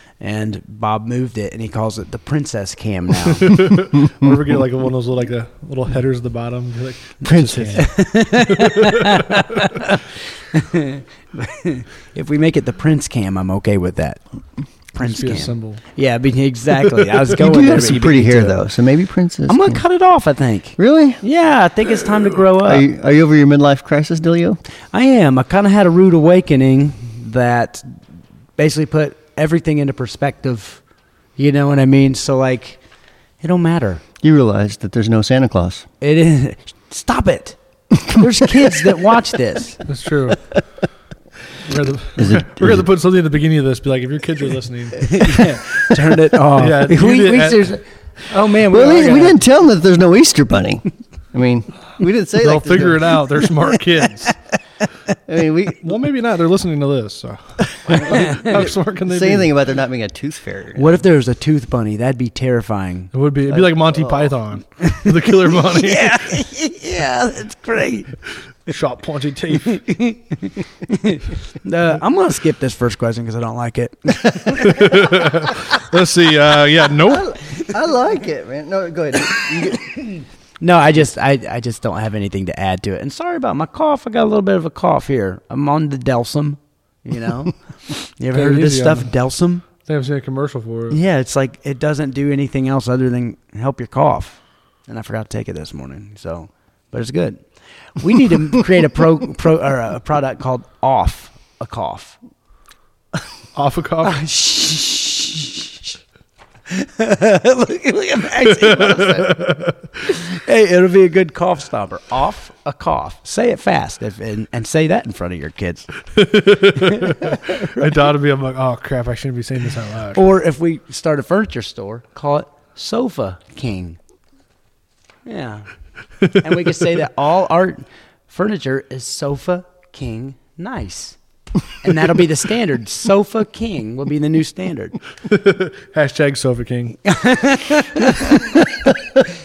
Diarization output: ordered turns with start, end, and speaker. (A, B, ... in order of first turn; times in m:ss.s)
0:00.2-0:03.6 A
0:03.5-0:09.2 B
0:07.2-0:07.9 C
0:07.7-0:14.2 A
0:14.9-0:18.6 A
0:15.0-0:15.8 B
0:16.9-0:17.2 B
0:17.4-0:19.8 C
0:19.5-0:22.9 A
0:20.8-0:21.2 C
0:22.6-0:24.6 C
0:24.9-0:27.8 A
0:28.6-0:30.8 A
0:31.4-0:32.8 A
0:33.4-0:34.0 A
0:34.2-0:35.8 C
0:36.0-0:39.8 A
0:38.0-0:39.0 C
0:39.9-0:40.6 B
0:41.6-0:46.0 B
0:42.2-0:42.8 C
0:45.0-0:49.3 A
0:46.5-0:47.7 B
0:48.3-0:49.3 B
0:48.4-0:53.3 C
0:52.4-0:54.4 B
0:55.3-0:55.9 C
0:55.8-0:59.5 B
0:57.9-1:01.0 C
0:57.9-0:58.5 A
1:00.8-1:03.1 A
1:03.1-1:06.4 B
1:03.5-1:04.4 C
1:04.8-1:05.1 A
1:05.6-1:08.1 A
1:08.7-1:09.8 B
1:09.7-1:15.0 A
1:14.5-1:17.4 B
1:17.0-1:20.0 C
1:20.6-1:29.6 A
1:28.3-1:29.1 B
1:29.8-1:31.0 B
1:30.9-1:37.4 A
1:38.0-1:42.2 A
1:43.5-1:44.2 B
1:44.0-1:45.9 A
1:46.7-1:49.3 A
1:48.5-1:50.0 B
1:50.1-1:55.9 A
1:56.1-2:00.2 B
1:56.7-1:57.8 A
2:00.1-2:04.0 A
2:05.2-2:11.2 A
2:11.7-2:15.0 A
2:15.2-2:17.2 B
2:17.0-2:18.8 A